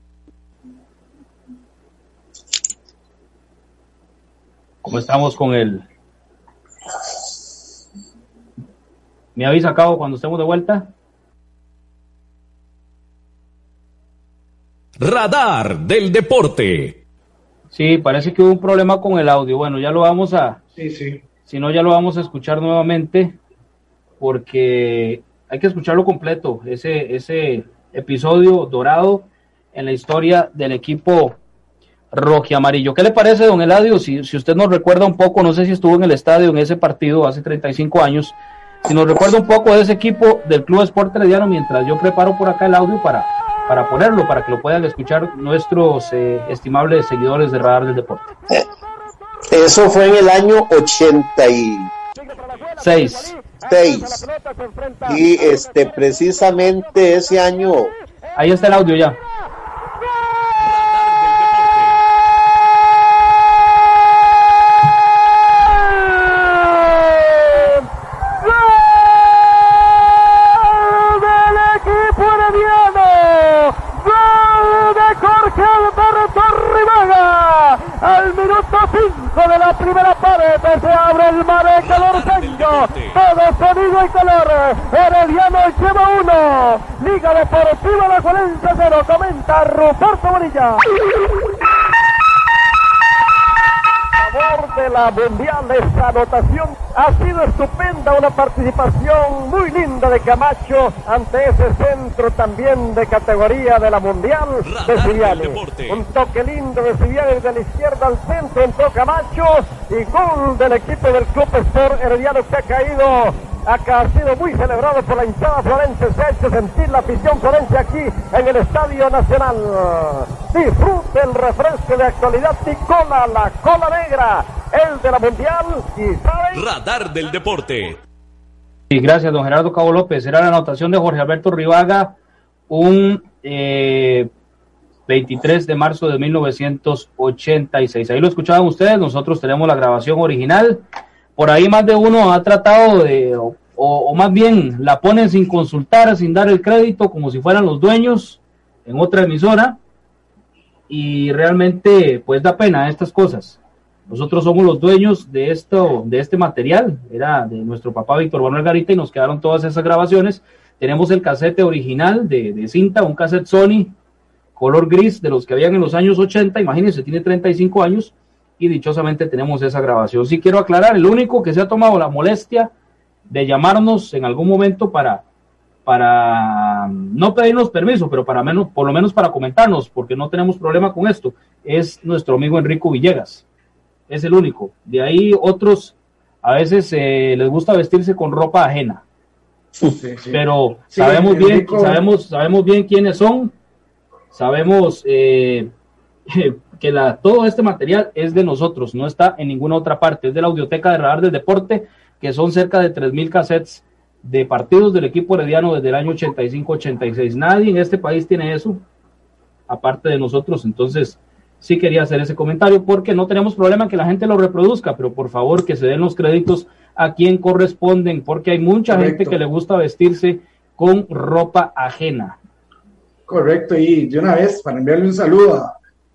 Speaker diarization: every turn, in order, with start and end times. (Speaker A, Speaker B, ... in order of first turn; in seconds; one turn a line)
Speaker A: 4.8-5.8
Speaker A: 9.3-10.9
Speaker B: 15.0-17.0
Speaker A: 17.7-20.6
Speaker C: 20.8-21.2
Speaker A: 21.5-23.4
Speaker A: 24.2-31.4
Speaker A: 32.1-48.3
Speaker D: 49.5-51.9
Speaker E: 52.1-55.6
Speaker A: 52.8-53.3
Speaker D: 53.6-54.3
Speaker D: 55.0-57.9
Speaker A: 58.4-59.2
Speaker B: 60.6-62.0
Speaker E: 65.6-90.9
Speaker B: 81.8-83.2
Speaker E: 94.2-126.6
Speaker B: 104.6-106.0
Speaker B: 126.5-128.0
Speaker A: 128.9-132.2
Speaker A: 132.7-134.3
Speaker A: 135.1-140.8
Speaker A: 141.4-149.8
Speaker A: 150.9-163.9
Speaker A: 164.6-172.7
Speaker A: 173.3-175.2
Speaker A: 175.8-183.4
Speaker A: 184.1-189.0
Speaker C: 189.8-192.0
Speaker A: 190.3-193.5
Speaker A: 194.3-195.7
Speaker A: 196.3-208.8
Speaker A: 209.7-222.4
Speaker C: 218.9-219.4
Speaker C: 223.3-225.7